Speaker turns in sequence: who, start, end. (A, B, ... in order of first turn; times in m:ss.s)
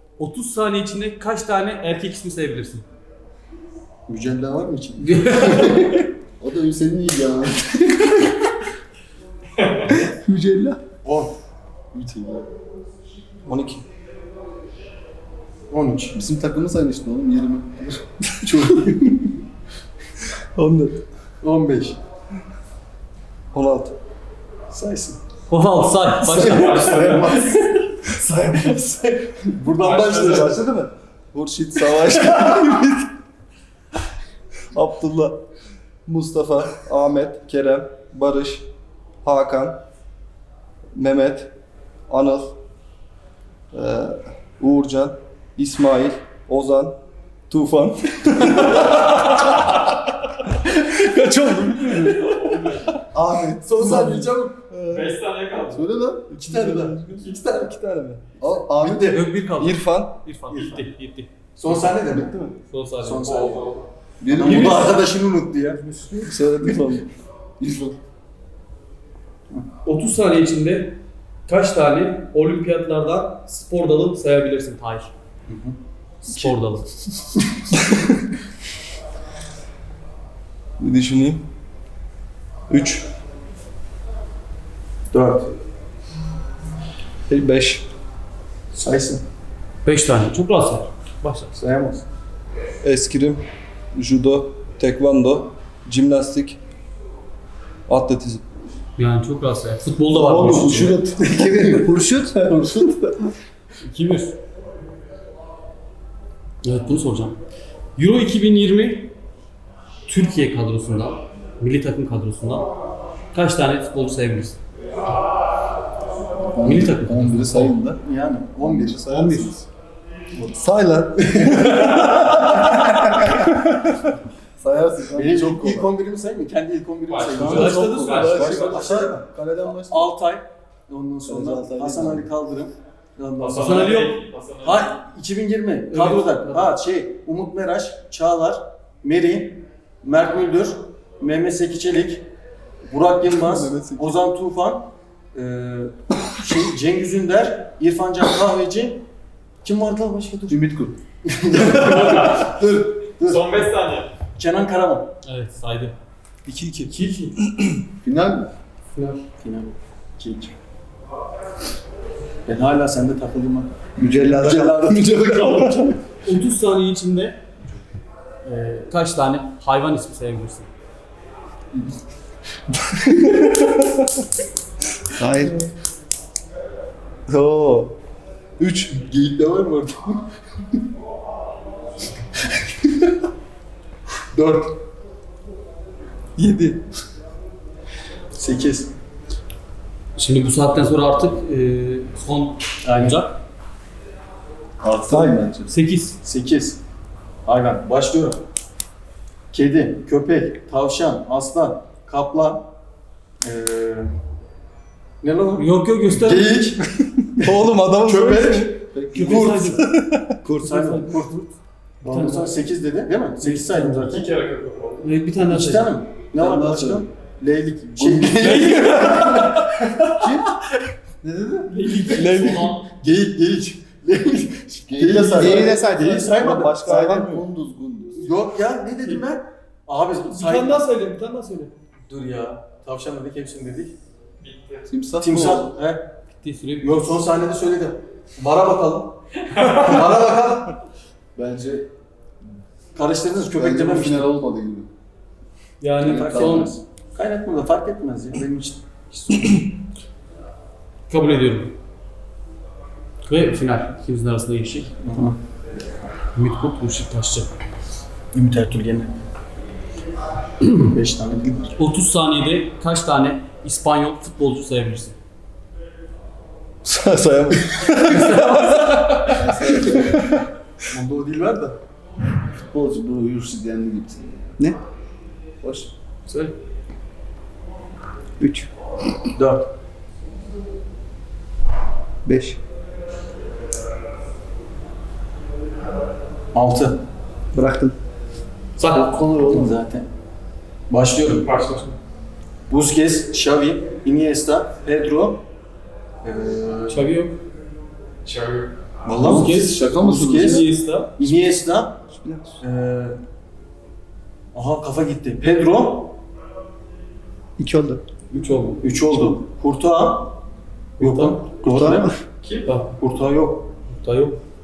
0:00.2-0:02.9 A
0:04.1-0:05.8 B
0:05.0-0:05.9 A
0:06.4-0:08.2 C
0:09.9-0:10.8 D
0:11.0-0:11.4 B
0:11.9-0:12.5 C
0:13.5-0:13.8 E
0:15.7-0:16.1 B
0:16.1-0:18.1 C
0:18.4-0:19.3 B
0:20.6-0:21.0 E
0:21.4-0:22.0 B
0:23.5-0:24.0 E
0:24.7-0:25.2 B
0:25.5-0:26.9 A
0:26.3-0:27.8 B
0:26.4-0:27.4 F
0:28.1-0:29.1 C
0:29.3-0:30.6 B
0:29.7-0:30.7 F
0:30.4-0:33.1 E
0:34.7-0:35.4 E
0:36.1-0:38.7 E
0:39.2-0:39.8 E
0:40.9-0:41.5 E
0:42.1-0:42.6 E
0:43.7-0:47.0 E
0:47.5-0:50.2 E
0:50.7-0:53.0 E
0:52.1-0:52.9 F
0:53.1-0:54.3 C
0:53.6-0:54.7 B
0:53.8-0:54.1 E
0:54.7-0:55.2 E
0:54.9-0:55.9 F
0:55.7-0:56.3 C
0:56.3-0:58.2 E
0:56.3-0:57.7 B
0:58.4-0:59.2 C
0:58.7-0:59.3 B
0:59.1-1:01.3 A
0:59.6-1:00.2 E
1:00.5-1:00.8 B
1:01.6-1:02.4 B
1:02.1-1:02.6 E
1:02.7-1:03.2 A
1:03.0-1:03.8 B
1:03.2-1:03.9 F
1:04.2-1:05.0 C
1:04.4-1:06.1 B
1:04.5-1:04.8 A
1:06.2-1:07.1 E
1:07.6-1:08.0 C
1:09.8-1:15.1 A
1:15.5-1:15.8 B
1:16.2-1:16.9 A
1:20.8-1:21.4 E
1:22.7-1:23.1 E
1:25.1-1:25.5 B
1:27.3-1:27.9 E
1:28.7-1:29.2 B
1:29.8-1:31.5 A
1:31.5-1:32.0 B
1:32.8-1:36.6 E
1:37.9-1:38.4 E
1:39.0-1:41.0 A
1:40.2-1:41.9 C
1:41.2-1:42.7 D
1:42.4-1:43.0 C
1:43.8-1:44.4 A
1:46.6-1:47.4 A
1:48.0-1:49.1 A
1:50.1-1:52.7 A
1:53.3-1:54.6 A
1:56.4-1:58.0 C
1:56.6-1:57.8 A
1:58.0-1:59.0 B
1:58.6-1:59.7 C
1:59.2-1:59.5 D
2:00.5-2:04.0 E
2:01.4-2:02.1 B
2:04.6-2:05.9 C
2:05.1-2:09.2 B
2:07.1-2:08.4 F
2:07.3-2:10.1 C
2:07.4-2:08.6 E
2:07.4-2:09.1 A
2:09.8-2:14.1 B
2:11.3-2:12.2 E
2:13.4-2:14.9 F
2:13.6-2:14.2 A
2:14.6-2:22.2 B
2:15.9-2:16.8 A
2:22.9-2:29.0 B
2:23.3-2:24.1 E
2:29.6-2:30.6 B
2:30.5-2:31.0 C
2:31.2-2:33.6 B
2:31.8-2:32.6 F
2:33.2-2:34.2 F
2:34.4-2:35.1 B
2:35.2-2:36.0 A
2:36.5-2:36.8 B
2:36.5-2:36.9 E
2:36.9-2:37.4 A
2:37.5-2:37.8 E
2:38.0-2:38.5 C
2:38.9-2:39.2 A
2:39.4-2:40.6 B
2:42.5-2:45.9 B
2:44.0-2:44.9 D
2:44.9-2:45.9 C
2:46.2-2:47.4 A
2:48.4-2:48.9 B
2:48.9-2:50.7 A
2:52.9-2:53.9 E
2:55.2-2:55.6 D
2:57.3-2:58.0 E
2:58.6-2:59.1 E
2:59.2-3:00.2 B
3:04.3-3:04.8 B
3:06.4-3:06.8 E
3:08.3-3:08.9 B
3:10.2-3:13.4 A
3:12.9-3:13.2 B
3:14.8-3:15.7 C
3:15.7-3:16.2 A
3:16.2-3:16.8 B
3:17.4-3:18.4 B
3:19.5-3:22.7 B
3:23.4-3:24.1 B
3:25.2-3:29.7 B
3:25.6-3:26.6 A
3:27.4-3:28.8 E
3:28.9-3:29.8 C
3:29.1-3:29.9 A
3:29.6-3:30.5 E
3:30.5-3:31.4 B
3:30.6-3:32.6 A
3:32.0-3:34.3 B
3:33.4-3:34.1 A
3:34.0-3:35.0 F
3:35.0-3:35.9 A
3:35.5-3:40.3 B
3:38.0-3:38.7 C
3:38.3-3:39.7 A
3:38.6-3:39.0 E
3:40.2-3:40.6 C
3:41.2-3:41.7 C
3:41.7-3:42.8 A
3:41.9-3:46.8 B
3:42.1-3:42.8 E
3:44.9-3:45.7 C
3:45.3-3:47.3 D
3:46.4-3:47.4 E
3:46.8-3:48.3 C
3:48.2-3:50.8 B
3:50.2-3:51.7 A
3:52.1-3:53.9 B
3:54.4-3:54.9 F
3:54.9-3:55.7 C
3:55.2-3:56.1 B
3:56.4-3:57.2 A
3:56.8-4:00.8 B
3:59.5-3:59.9 F
4:01.4-4:01.9 C
4:02.9-4:04.3 B
4:03.5-4:04.9 C
4:05.8-4:06.7 A
4:06.0-4:06.8 C
4:06.0-4:09.7 B
4:11.1-4:11.8 A
4:13.2-4:15.0 A
4:15.0-4:15.4 B
4:16.3-4:17.5 A
4:18.3-4:19.2 B
4:20.6-4:21.7 B
4:21.8-4:25.2 A
4:26.8-4:30.4 E
4:28.1-4:29.4 A
4:29.4-4:30.2 C
4:30.9-4:31.8 B
4:32.4-4:34.5 C
4:35.6-4:35.9 C
4:38.4-4:38.7 D
4:39.4-4:39.7 B
4:42.2-4:42.6 D
4:46.5-4:47.0 B
4:47.5-4:48.0 D
4:48.9-4:49.8 C
4:48.9-4:50.1 B
4:50.9-4:51.5 B
4:51.2-4:51.9 F
4:52.7-4:55.4 B
4:56.2-4:57.1 B
4:56.9-4:57.4 A
4:58.2-4:58.7 F
4:59.0-5:00.7 C
4:59.2-5:01.2 A
4:59.3-5:00.7 B
5:01.2-5:02.0 B
5:02.2-5:02.6 D
5:02.6-5:03.2 B
5:04.5-5:06.2 B
5:07.6-5:08.0 D
5:08.3-5:08.8 A
5:08.8-5:10.3 B
5:11.0-5:11.4 A
5:11.0-5:12.1 B
5:11.6-5:12.2 D
5:12.4-5:12.7 F
5:12.7-5:12.9 A
5:13.0-5:13.7 B
5:13.9-5:14.4 A